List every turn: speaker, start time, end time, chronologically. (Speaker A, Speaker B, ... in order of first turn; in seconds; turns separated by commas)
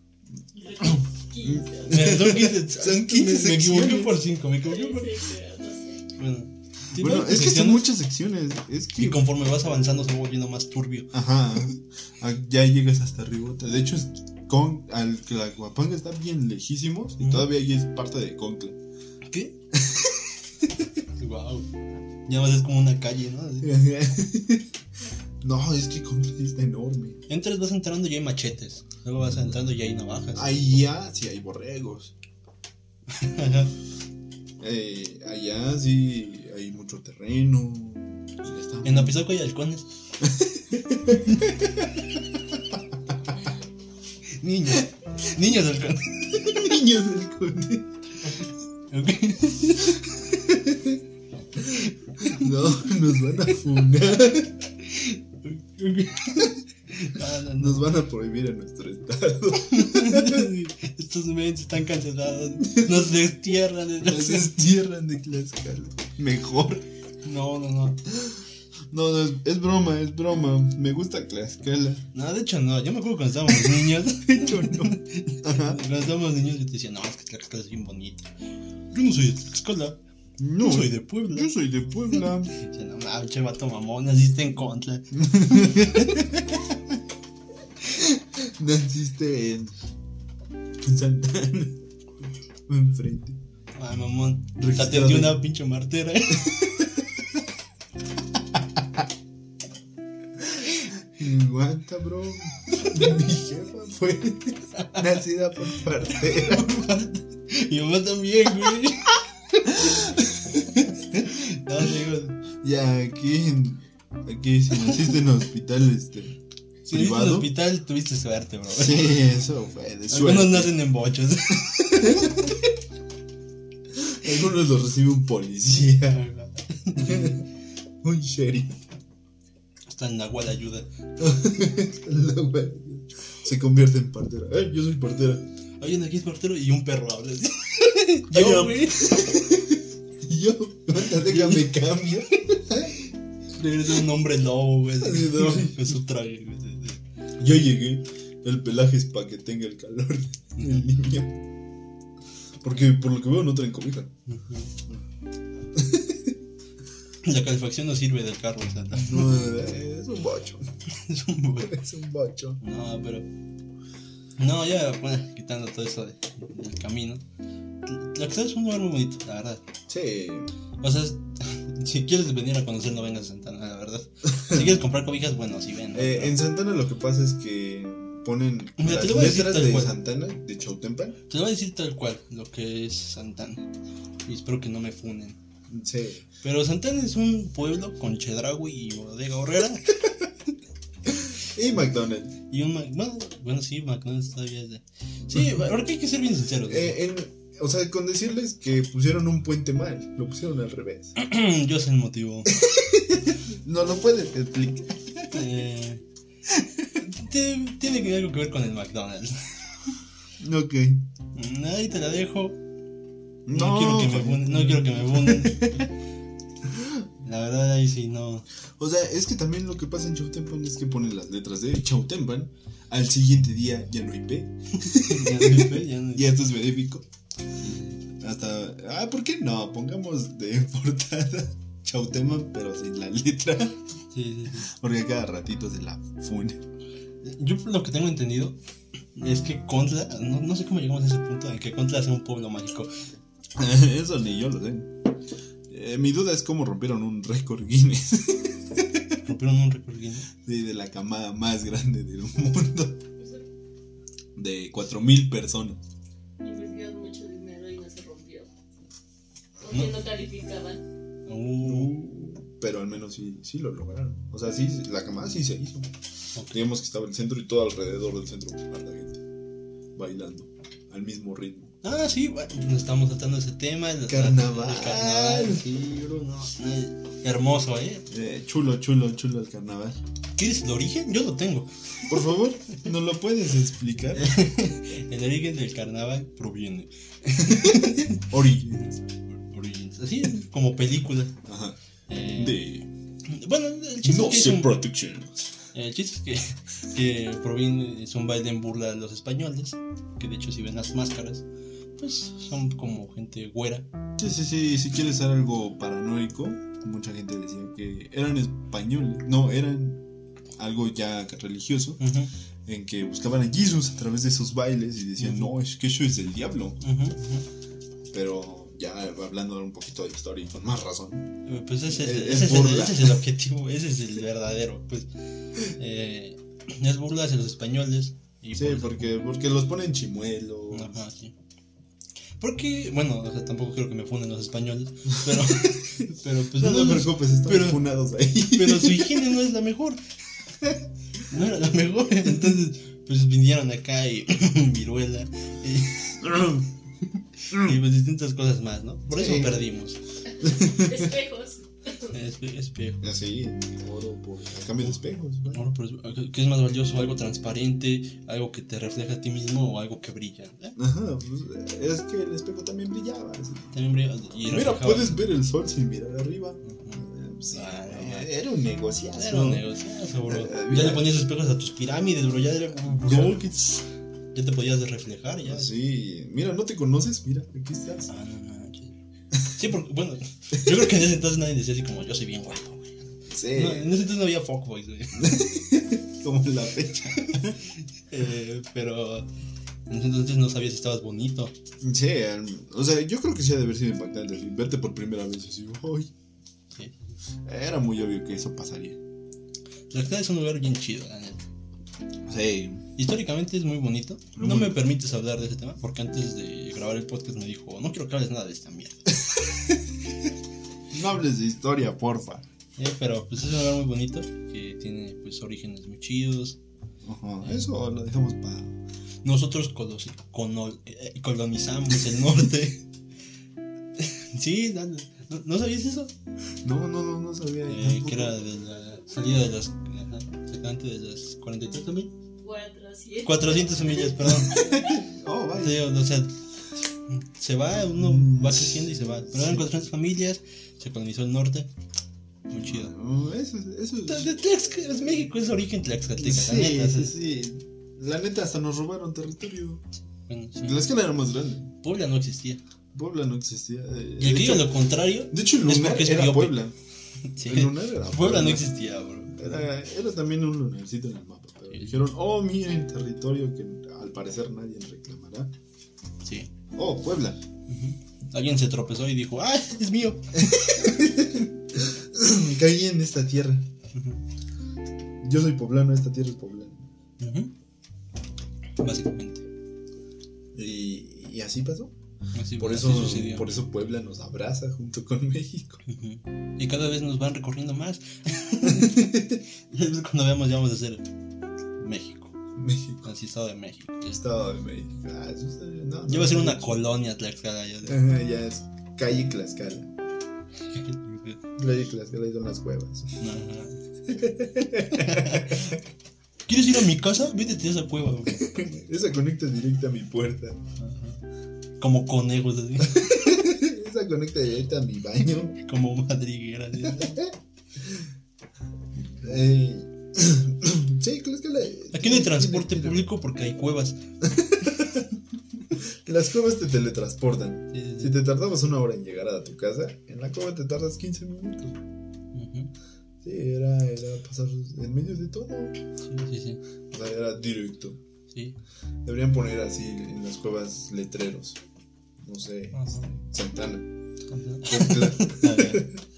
Speaker A: 0.5-2.3, Speaker B: 1.4-4.2, Speaker C: 1.8-5.2, Speaker A: 4.6-6.1, Speaker C: 6.2-7.9, Speaker B: 6.9-9.3, Speaker C: 8.9-11.2, Speaker B: 11.1-18.8, Speaker C: 17.2-17.5, Speaker C: 19.3-19.6, Speaker B: 19.7-20.4, Speaker C: 21.2-21.7, Speaker C: 22.3-23.8, Speaker B: 23.6-24.7, Speaker B: 25.4-27.2, Speaker C: 27.3-30.5, Speaker B: 30.3-32.1, Speaker C: 33.1-33.7, Speaker B: 34.6-39.3, Speaker C: 38.8-39.9, Speaker B: 40.2-42.8, Speaker C: 44.4-46.4, Speaker B: 46.3-47.9, Speaker C: 48.9-50.1, Speaker B: 50.2-51.0, Speaker C: 51.6-52.5, Speaker B: 51.7-54.7, Speaker C: 54.8-57.9, Speaker B: 57.5-60.5, Speaker C: 59.6-64.5, Speaker B: 62.7-63.0, Speaker B: 64.0-66.8, Speaker C: 67.2-68.0, Speaker B: 68.1-68.4, Speaker B: 68.9-72.0, Speaker C: 72.1-78.3, Speaker B: 73.7-75.8, Speaker C: 78.9-80.0, Speaker B: 80.4-82.5, Speaker C: 80.6-81.5, Speaker C: 82.5-86.3, Speaker B: 85.1-86.8, Speaker B: 87.9-89.8, Speaker B: 90.8-91.8, Speaker B: 92.7-93.4, Speaker C: 93.7-96.6, Speaker B: 94.6-95.4, Speaker B: 96.4-97.0, Speaker B: 98.5-99.0, Speaker B: 100.4-106.9, Speaker C: 106.1-112.4, Speaker B: 109.7-110.6, Speaker B: 112.6-116.4, Speaker C: 114.8-115.1, Speaker C: 116.9-119.2, Speaker B: 116.9-117.5, Speaker B: 118.7-120.8, Speaker C: 120.1-122.5, Speaker B: 121.7-122.5, Speaker B: 123.9-126.2, Speaker C: 126.0-127.4, Speaker B: 127.0-127.4, Speaker B: 128.0-128.8, Speaker C: 129.9-130.9, Speaker B: 131.2-135.4, Speaker C: 135.8-139.3, Speaker B: 138.3-143.0, Speaker C: 141.2-141.7, Speaker C: 143.5-147.0, Speaker B: 145.0-145.9, Speaker B: 147.4-151.4, Speaker C: 150.6-150.8, Speaker B: 152.6-154.1, Speaker C: 154.3-154.7, Speaker B: 155.7-156.4, Speaker C: 157.2-159.5, Speaker B: 158.9-160.7, Speaker C: 160.9-161.8, Speaker B: 161.6-162.6, Speaker C: 162.6-163.3, Speaker C: 164.4-167.2, Speaker C: 167.8-169.6, Speaker B: 169.9-170.5, Speaker C: 170.8-176.4, Speaker B: 175.9-181.2, Speaker C: 178.8-179.9, Speaker C: 181.3-183.7, Speaker C: 184.2-185.4, Speaker B: 185.7-186.3, Speaker C: 186.4-190.0, Speaker B: 191.1-192.3, Speaker C: 192.5-197.0, Speaker B: 195.3-195.7, Speaker B: 196.7-201.2, Speaker C: 201.2-202.6, Speaker B: 202.5-205.3, Speaker C: 205.3-206.0, Speaker B: 206.6-206.8, Speaker C: 206.9-209.9, Speaker B: 210.4-211.0, Speaker C: 211.3-212.6, Speaker B: 213.4-215.8, Speaker C: 213.5-215.9, Speaker B: 216.7-217.0, Speaker C: 217.2-218.4, Speaker B: 218.8-227.1, Speaker C: 224.8-226.4, Speaker C: 227.6-228.0, Speaker B: 228.1-233.8, Speaker C: 234.1-234.7, Speaker B: 234.5-236.6, Speaker C: 237.2-238.6, Speaker C: 239.2-242.9, Speaker B: 243.6-244.9, Speaker B: 245.7-249.2, Speaker C: 249.2-250.3, Speaker B: 250.4-253.0, Speaker A: 253.2-253.4, Speaker B: 254.4-255.8, Speaker A: 256.4-258.5, Speaker A: 259.6-260.8, Speaker C: 261.3-261.9, Speaker B: 261.6-265.9, Speaker B: 266.4-269.2, Speaker B: 269.9-271.7, Speaker C: 271.8-278.0, Speaker B: 274.1-275.7, Speaker B: 278.1-280.0, Speaker C: 280.4-281.7, Speaker B: 282.1-284.4, Speaker C: 284.2-291.3, Speaker B: 287.4-288.9, Speaker B: 291.4-291.8, Speaker C: 292.1-292.6, Speaker B: 292.3-292.9, Speaker C: 293.2-294.8, Speaker B: 294.0-295.3, Speaker C: 295.7-301.4, Speaker C: 302.0-303.9, Speaker B: 304.2-310.0, Speaker B: 310.6-312.1, Speaker C: 312.0-312.3, Speaker B: 312.7-316.8, Speaker C: 315.2-315.5, Speaker C: 316.8-317.4, Speaker B: 318.1-321.3, Speaker C: 321.4-329.2, Speaker B: 321.9-323.2, Speaker B: 328.6-331.0, Speaker C: 330.7-331.3, Speaker C: 332.4-337.8, Speaker B: 335.3-335.9, Speaker B: 336.5-339.3, Speaker C: 338.4-340.0, Speaker C: 341.2-346.4, Speaker B: 346.2-346.7, Speaker C: 347.4-350.0, Speaker B: 347.5-347.8, Speaker B: 349.1-349.6, Speaker A: 350.4-352.1, Speaker B: 350.4-351.0, Speaker C: 352.1-353.0, Speaker B: 353.0-355.6, Speaker C: 354.8-360.8, Speaker B: 360.8-363.7, Speaker C: 363.7-365.2, Speaker B: 364.5-369.7, Speaker C: 366.6-368.3, Speaker C: 369.2-375.7, Speaker B: 370.3-371.1, Speaker B: 372.9-373.4, Speaker B: 375.4-378.1, Speaker C: 378.1-385.4, Speaker B: 383.3-383.9, Speaker B: 385.1-387.6, Speaker C: 387.3-389.3, Speaker C: 389.9-391.5, Speaker B: 391.8-396.1, Speaker C: 396.7-397.1, Speaker B: 397.4-399.0, Speaker C: 399.9-401.4, Speaker B: 402.3-402.8, Speaker C: 403.0-409.1, Speaker B: 404.4-404.8, Speaker B: 410.9-412.4, Speaker C: 412.8-416.6, Speaker B: 417.0-418.8, Speaker C: 419.2-422.8, Speaker C: 424.0-426.1, Speaker B: 426.6-428.4, Speaker C: 427.7-432.1, Speaker A: 432.4-434.1, Speaker C: 433.2-434.7, Speaker B: 434.2-435.9, Speaker C: 435.6-436.3, Speaker C: 437.1-441.7, Speaker B: 438.0-439.7, Speaker C: 442.5-442.9, Speaker B: 442.6-445.0, Speaker C: 444.1-447.1, Speaker B: 446.2-449.8, Speaker C: 450.3-450.8, Speaker B: 450.6-451.7, Speaker C: 451.8-452.6, Speaker B: 452.9-456.7, Speaker C: 454.2-456.6, Speaker C: 457.3-459.6, Speaker B: 457.4-458.7, Speaker B: 459.3-465.5, Speaker C: 461.7-462.0, Speaker C: 466.2-466.5, Speaker B: 466.7-467.4, Speaker C: 467.7-470.9, Speaker B: 470.4-473.7, Speaker C: 473.9-474.2, Speaker B: 475.2-476.8, Speaker C: 477.2-477.5, Speaker C: 478.8-479.4, Speaker B: 480.5-481.9, Speaker C: 482.3-483.5, Speaker B: 482.6-485.8, Speaker C: 485.9-491.1, Speaker B: 488.6-489.4, Speaker C: 491.8-492.3, Speaker B: 492.5-493.1, Speaker C: 493.0-494.2, Speaker B: 494.1-496.8, Speaker C: 496.1-498.0, Speaker B: 497.8-499.9, Speaker C: 500.7-501.4, Speaker B: 501.6-503.2, Speaker C: 503.2-503.8, Speaker B: 504.1-505.7, Speaker C: 504.9-505.8, Speaker C: 506.5-508.5, Speaker B: 508.4-510.6, Speaker C: 510.8-511.2, Speaker C: 511.8-513.2, Speaker B: 512.9-515.5, Speaker C: 515.6-517.2, Speaker B: 516.8-518.1, Speaker B: 519.2-523.0, Speaker C: 521.9-524.0, Speaker B: 524.2-525.1, Speaker B: 525.7-531.8, Speaker C: 527.7-528.1, Speaker C: 532.3-532.7, Speaker B: 533.2-535.8, Speaker C: 536.0-536.6, Speaker B: 536.9-538.0, Speaker C: 538.3-538.5, Speaker B: 539.0-541.6, Speaker B: 542.2-543.9, Speaker C: 542.7-543.1, Speaker C: 544.3-545.9, Speaker B: 544.6-545.9